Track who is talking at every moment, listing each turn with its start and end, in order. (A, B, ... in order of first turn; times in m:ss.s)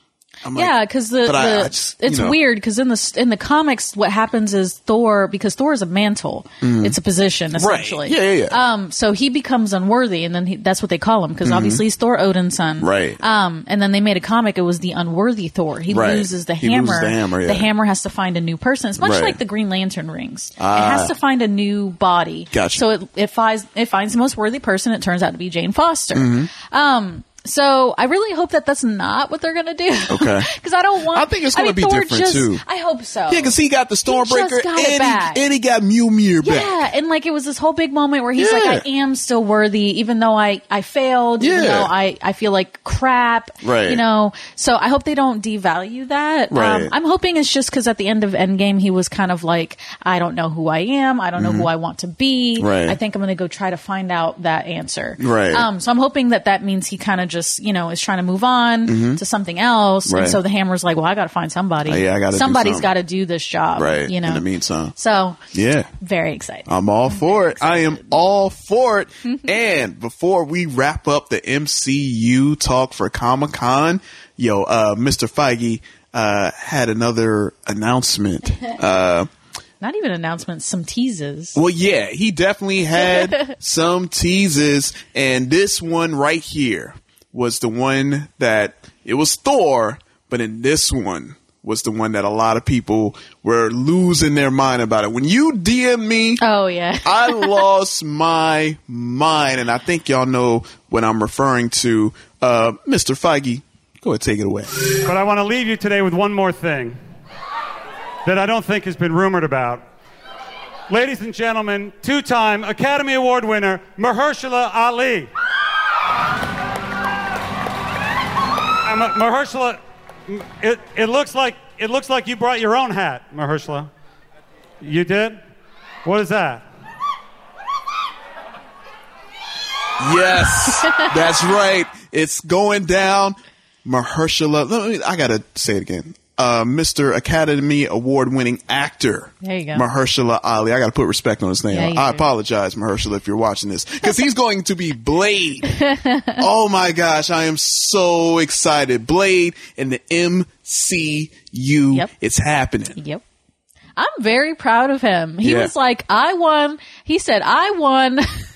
0:00.4-0:00.7 A
0:00.5-0:33.5 B
0:01.2-0:02.4 A
0:06.6-0:07.0 A
0:07.6-0:08.6 A
0:11.4-0:11.8 A
0:12.8-0:13.2 A
0:15.9-0:17.7 A
0:19.0-0:19.4 A
0:20.6-0:21.1 A
0:22.5-0:22.8 A
0:26.1-0:26.5 A
0:30.1-0:30.5 A
0:31.1-0:32.6 A
0:33.3-0:36.8 A
0:34.0-0:35.4 B
0:36.4-1:04.4 B
0:38.4-0:38.8 A
0:41.4-0:41.9 A
0:43.6-0:44.0 A
0:46.5-0:46.9 A
0:51.4-0:51.7 A
0:52.6-0:53.0 A
0:55.2-0:55.7 A
0:58.9-0:59.2 A
1:00.1-1:00.4 A
1:01.8-1:02.9 A
1:03.8-1:04.9 A
1:05.0-1:05.4 B
1:05.5-1:05.9 A
1:06.0-1:08.2 B
1:06.7-1:19.3 A
1:09.2-1:09.5 B
1:19.8-1:21.6 B
1:21.5-1:36.4 A
1:23.0-1:23.5 B
1:36.4-1:37.6 B
1:37.0-1:44.7 A
1:45.0-1:47.0 C
1:48.2-1:49.8 C
1:50.9-1:55.3 C
1:58.8-2:03.9 C
2:04.8-2:05.4 C
2:06.0-2:06.6 C
2:10.0-2:25.7 A
2:19.4-2:19.8 B
2:21.7-2:22.2 B
2:25.7-2:26.4 B
2:26.4-2:33.0 A
2:33.0-2:33.2 B
2:34.0-2:38.2 B
2:35.4-2:35.7 A